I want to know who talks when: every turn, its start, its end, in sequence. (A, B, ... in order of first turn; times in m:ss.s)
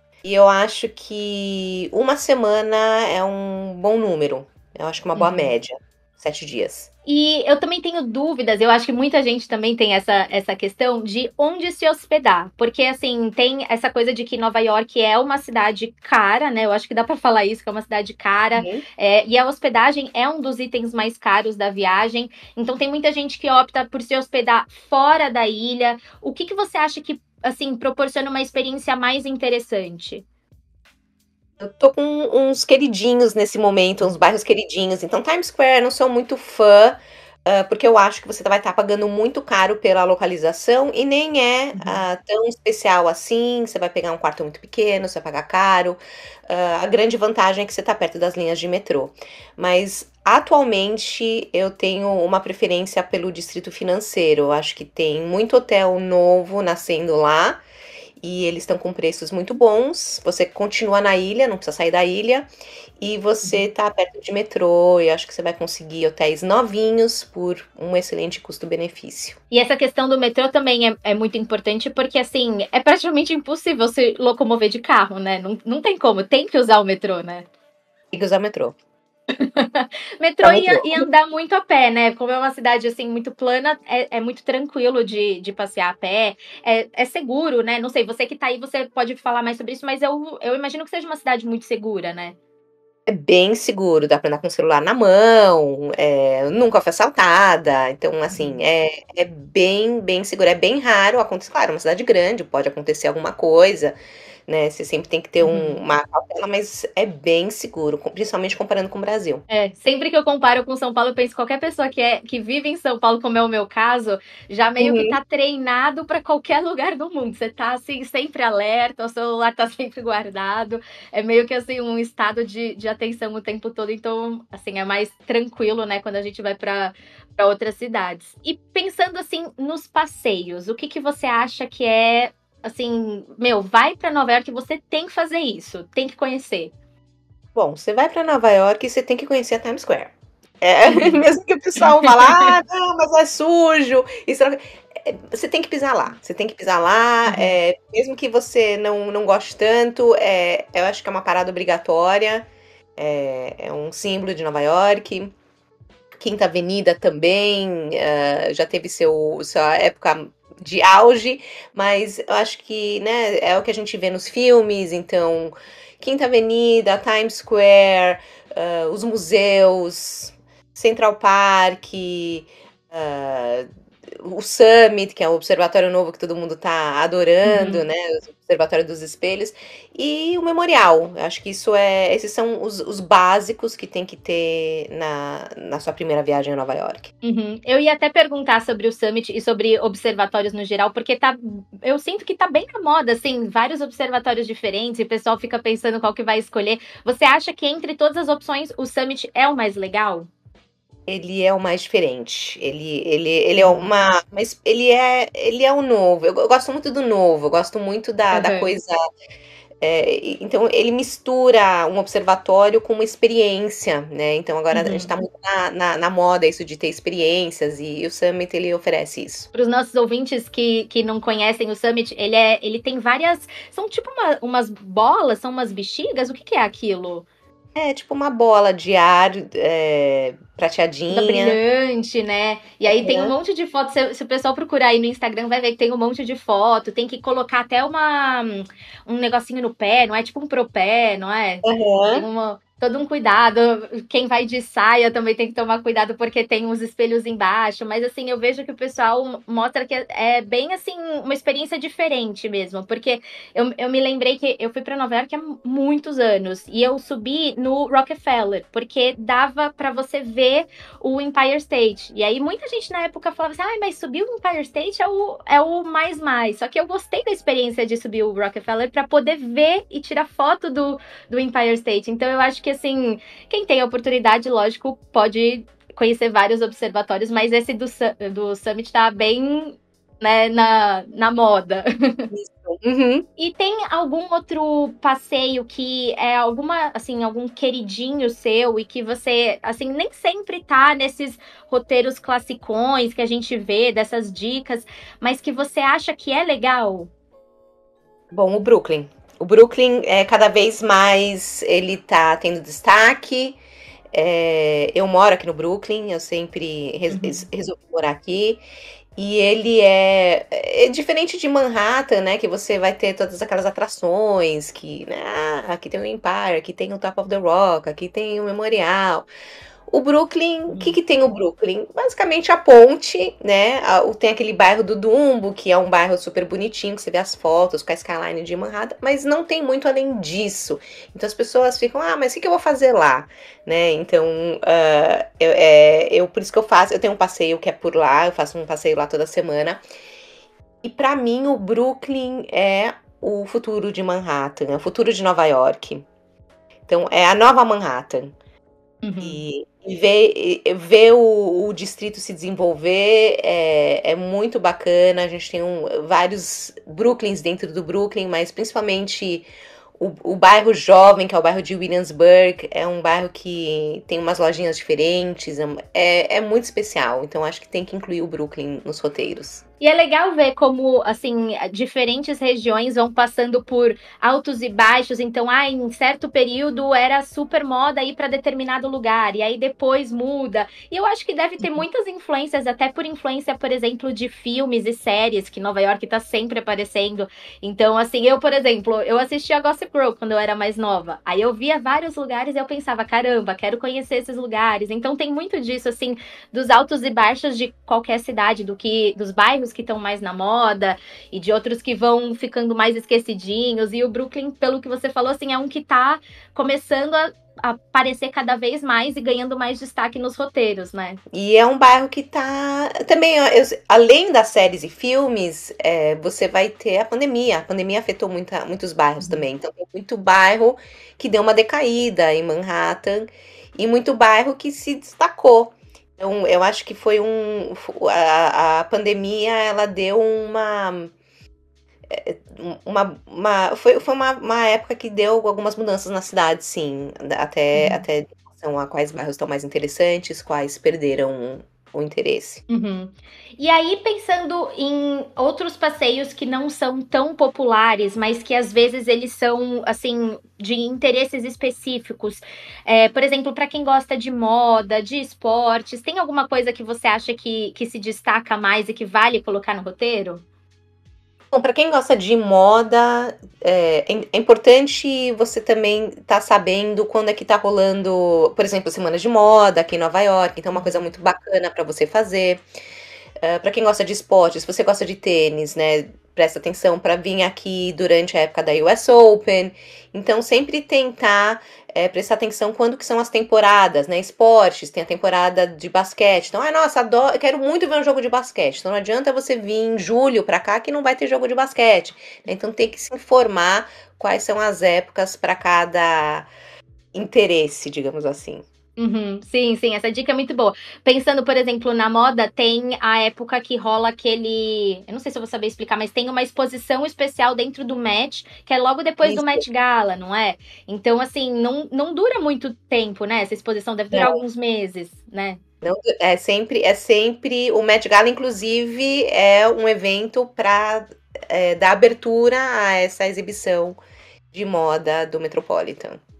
0:00.2-0:06.9 A
0:05.2-0:05.5 B
0:07.1-0:30.2 B
0:18.6-0:18.8 A
0:31.6-0:57.6 A
0:41.7-0:42.0 B
0:58.2-1:02.5 A
1:03.0-1:09.4 A
1:09.5-1:17.5 B
1:18.1-1:18.8 A
1:19.4-1:32.4 B
1:20.4-1:21.0 A
1:33.1-1:49.4 A
1:38.3-1:38.6 B
1:45.4-1:45.8 B
1:49.5-2:16.7 B
1:54.8-1:55.2 A
2:17.6-2:35.3 A
2:20.9-2:21.2 B
2:22.0-2:22.5 B
2:27.3-2:27.6 B
2:36.2-2:53.7 A
2:54.2-3:07.1 A
2:57.4-2:57.8 B
3:07.2-3:20.3 B
3:21.1-3:29.0 A
3:23.6-3:23.9 B
3:28.3-3:28.7 B
3:29.8-3:39.5 A
3:34.7-3:35.1 B
3:39.5-3:47.3 B
3:47.8-3:51.6 A
3:51.1-4:42.3 B
3:53.0-3:53.4 A
4:01.6-4:02.3 A
4:42.3-4:43.3 A
4:43.4-4:57.1 B
4:58.3-5:03.6 A
5:04.1-5:08.6 A
5:07.1-5:07.5 B
5:09.2-5:19.3 A
5:19.9-5:39.8 A
5:20.7-5:21.0 B
5:40.8-5:46.1 A
5:46.9-5:48.3 A
5:49.0-5:49.4 B
5:49.2-5:59.5 A
6:00.0-6:09.6 A
6:09.8-6:51.2 B
6:51.3-7:11.1 A
6:59.2-6:59.4 B
7:12.1-7:22.6 A
7:17.7-7:18.0 B
7:22.7-7:40.4 B
7:41.5-7:52.6 A
7:50.7-7:51.0 B
7:53.4-8:16.5 A
8:17.1-8:18.6 A
8:19.0-8:35.6 B
8:29.2-8:29.6 A
8:34.1-8:34.4 A
8:35.8-8:44.0 A
8:44.5-8:46.2 A